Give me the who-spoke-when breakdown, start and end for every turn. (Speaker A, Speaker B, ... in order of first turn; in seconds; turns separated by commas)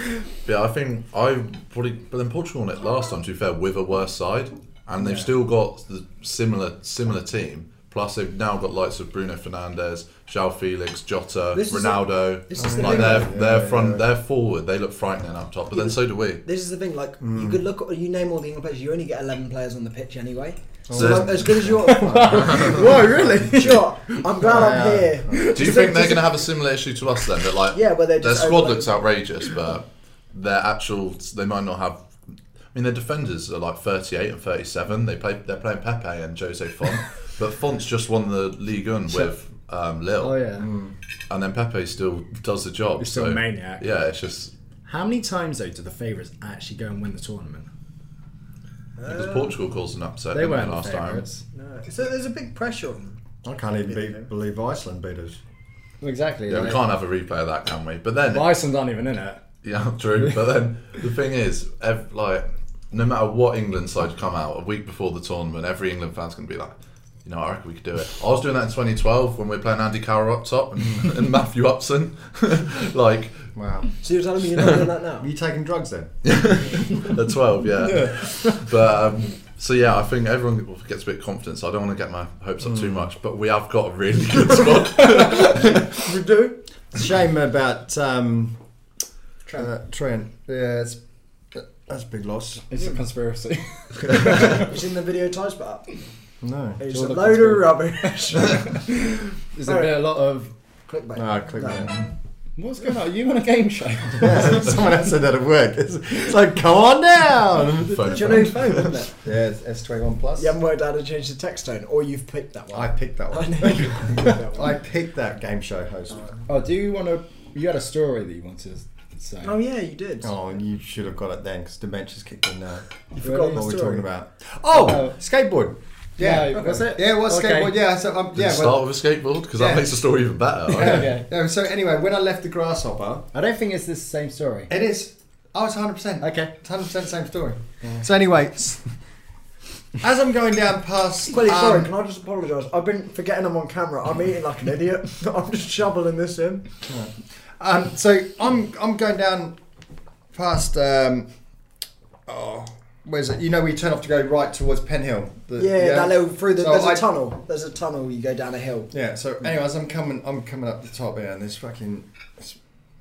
Speaker A: 0.4-16.4, Speaker B: 5.0-5.3, Speaker B: 11.5-13.3, Speaker C: 12.6-14.0, Speaker B: 15.7-26.4, Speaker C: 17.2-17.6, Speaker C: 20.9-23.8, Speaker A: 20.9-21.6, Speaker D: 21.8-23.7, Speaker A: 22.4-23.0, Speaker C: 24.4-25.4, Speaker D: 25.3-25.9, Speaker A: 25.5-32.0, Speaker B: 27.7-28.9, Speaker A: 32.7-40.4, Speaker D: 40.2-40.7, Speaker C: 40.6-40.9, Speaker A: 41.3-44.5, Speaker D: 43.0-43.8, Speaker D: 44.9-47.7, Speaker B: 49.0-49.6, Speaker A: 49.0-51.2, Speaker D: 50.3-51.4, Speaker B: 51.5-53.2, Speaker C: 53.4-55.4, Speaker B: 53.9-54.3, Speaker D: 56.0-56.8, Speaker A: 56.5-58.6, Speaker D: 58.2-59.4, Speaker A: 59.6-66.7, Speaker A: 67.2-73.5, Speaker C: 73.5-73.9, Speaker B: 74.0-75.3, Speaker A: 74.6-74.8, Speaker C: 75.2-76.1, Speaker A: 76.2-85.9, Speaker B: 85.3-86.6, Speaker C: 86.9-88.6, Speaker C: 89.5-91.0, Speaker C: 91.5-92.7, Speaker D: 92.7-94.7, Speaker B: 94.1-96.0, Speaker C: 96.4-96.8, Speaker B: 96.8-98.9, Speaker D: 96.9-100.5, Speaker B: 100.9-101.9, Speaker C: 101.2-102.0, Speaker D: 102.6-104.6, Speaker C: 104.2-108.5, Speaker A: 107.7-109.0, Speaker B: 108.0-109.1, Speaker C: 109.2-110.5, Speaker B: 110.4-114.7, Speaker C: 112.7-116.2, Speaker D: 116.5-119.5, Speaker B: 119.4-120.3, Speaker C: 120.2-122.9, Speaker B: 123.2-124.0, Speaker D: 123.2-123.6, Speaker C: 123.5-128.9, Speaker D: 124.7-125.2, Speaker D: 126.2-127.7, Speaker A: 128.3-131.1, Speaker C: 129.5-129.9, Speaker C: 130.7-133.3, Speaker D: 130.7-131.3, Speaker D: 133.3-134.7, Speaker C: 134.7-138.8, Speaker D: 136.2-136.5, Speaker C: 140.0-141.9, Speaker B: 141.3-146.7, Speaker C: 146.9-149.5, Speaker C: 150.3-151.3, Speaker C: 152.3-157.0, Speaker B: 155.6-158.9, Speaker C: 158.9-162.6